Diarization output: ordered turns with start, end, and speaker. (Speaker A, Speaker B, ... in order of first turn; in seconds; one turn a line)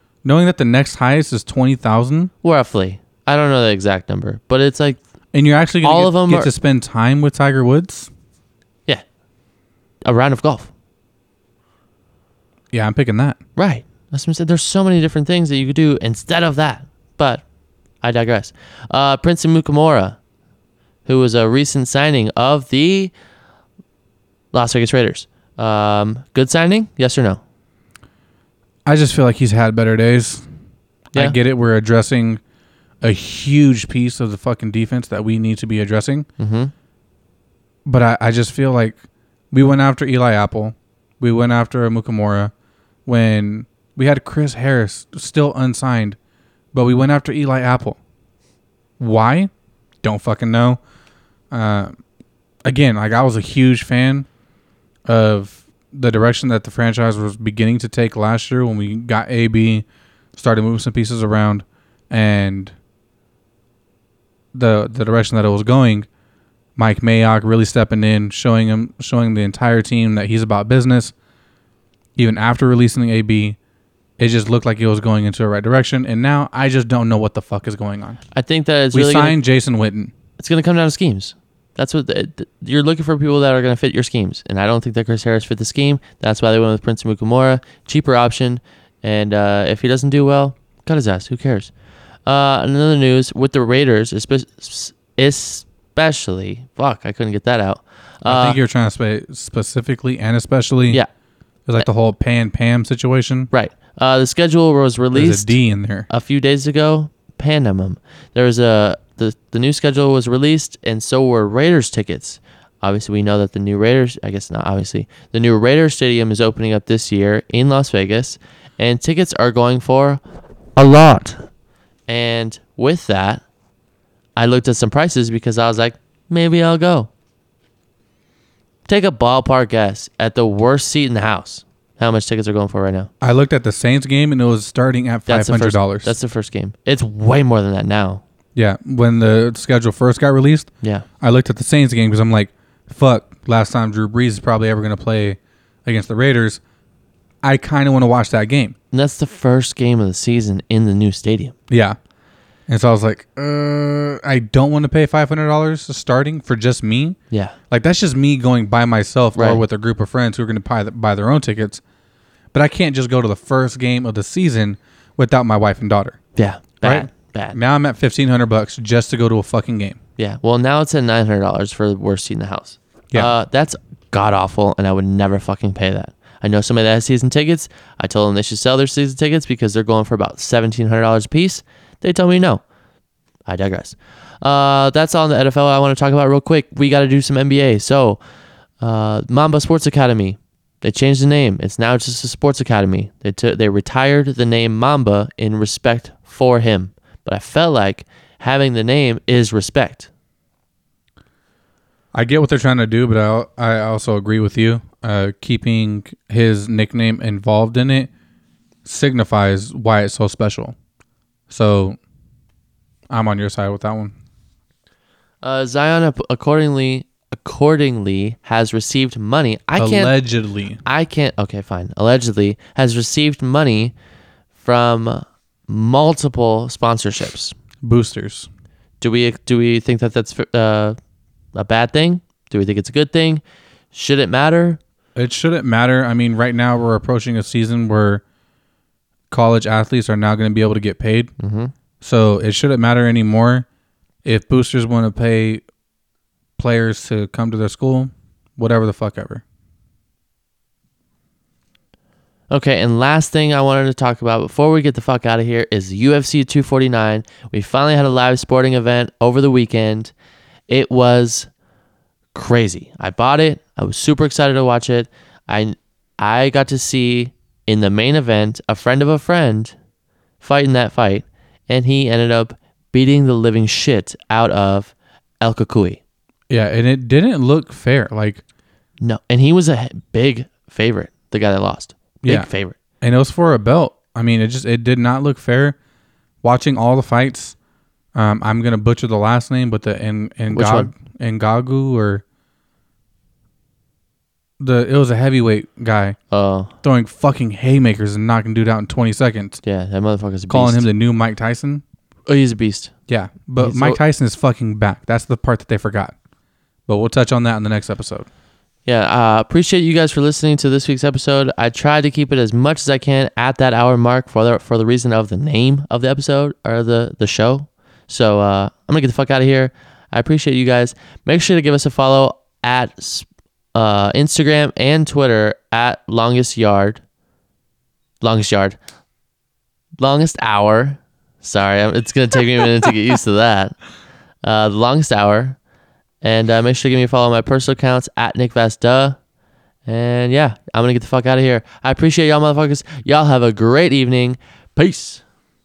Speaker A: 0.2-2.3
Speaker B: 2.4-5.0
Speaker A: 5.3-8.1
Speaker B: 5.8-6.5
Speaker B: 10.0-10.7
Speaker A: 12.7-13.4
Speaker B: 13.6-17.4
Speaker B: 18.0-20.2
Speaker B: 21.1-23.1
Speaker B: 24.5-27.4
Speaker A: 28.9-30.4
Speaker A: 31.1-32.4
Speaker A: 33.0-36.3
Speaker B: 36.4-36.7
Speaker A: 37.9-39.0
Speaker A: 39.5-42.5
Speaker A: 43.0-46.2
Speaker A: 46.7-48.0
Speaker A: 49.0-49.5
Speaker A: 50.0-50.8
Speaker A: 51.5-51.9
Speaker A: 52.6-54.3
Speaker A: 55.0-62.7
Speaker A: 64.5-66.1
Speaker A: 66.8-71.1
Speaker A: 72.2-73.6
Speaker A: 74.2-78.2
Speaker B: 78.3-79.4
Speaker A: 78.9-80.1
Speaker B: 80.4-91.7
Speaker B: 92.2-98.6
Speaker A: 98.2-101.0
Speaker A: 101.7-103.5
Speaker B: 103.5-105.5
Speaker A: 105.1-106.1
Speaker B: 106.1-120.2
Speaker B: 120.8-121.5
Speaker B: 122.1-123.4
Speaker B: 124.3-127.1
Speaker B: 128.9-133.1
Speaker A: 133.2-136.1
Speaker B: 135.3-138.2
Speaker A: 138.5-140.7
Speaker A: 141.2-146.6
Speaker A: 147.4-148.8
Speaker B: 148.9-151.5
Speaker A: 151.7-152.0
Speaker A: 152.7-157.2
Speaker B: 157.3-157.6
Speaker A: 157.7-161.8
Speaker B: 159.3-159.6
Speaker A: 162.5-166.2
Speaker B: 166.3-167.6
Speaker A: 166.8-170.0
Speaker B: 170.2-182.6
Speaker B: 183.4-188.2
Speaker B: 188.8-200.1
Speaker A: 202.1-208.1
Speaker A: 208.8-210.7
Speaker A: 211.5-212.0
Speaker A: 213.1-214.1
Speaker B: 215.4-220.1
Speaker A: 219.8-220.8
Speaker B: 220.8-223.9
Speaker B: 224.6-227.5
Speaker A: 227.8-228.5
Speaker B: 229.0-230.9
Speaker B: 231.5-233.4
Speaker B: 233.9-234.8
Speaker A: 235.2-238.2
Speaker A: 239.3-241.3
Speaker B: 241.4-241.7
Speaker A: 242.0-243.7
Speaker A: 244.2-245.6
Speaker A: 246.6-249.4
Speaker B: 252.5-260.1
Speaker B: 260.7-261.5
Speaker B: 262.3-269.8
Speaker B: 270.4-276.0
Speaker A: 276.5-278.4
Speaker B: 279.0-282.8
Speaker A: 283.0-285.8
Speaker A: 286.4-287.5
Speaker A: 288.1-292.2
Speaker B: 290.5-290.9
Speaker A: 294.6-296.2
Speaker B: 296.3-296.7
Speaker A: 296.8-299.6
Speaker B: 299.6-300.9
Speaker A: 300.5-301.8
Speaker B: 302.2-302.9
Speaker A: 303.1-306.1
Speaker B: 303.6-304.0
Speaker A: 306.9-308.3
Speaker B: 308.9-327.0
Speaker B: 328.2-328.8
Speaker B: 330.0-333.8
Speaker B: 334.4-335.6
Speaker B: 336.2-339.2
Speaker B: 339.9-345.2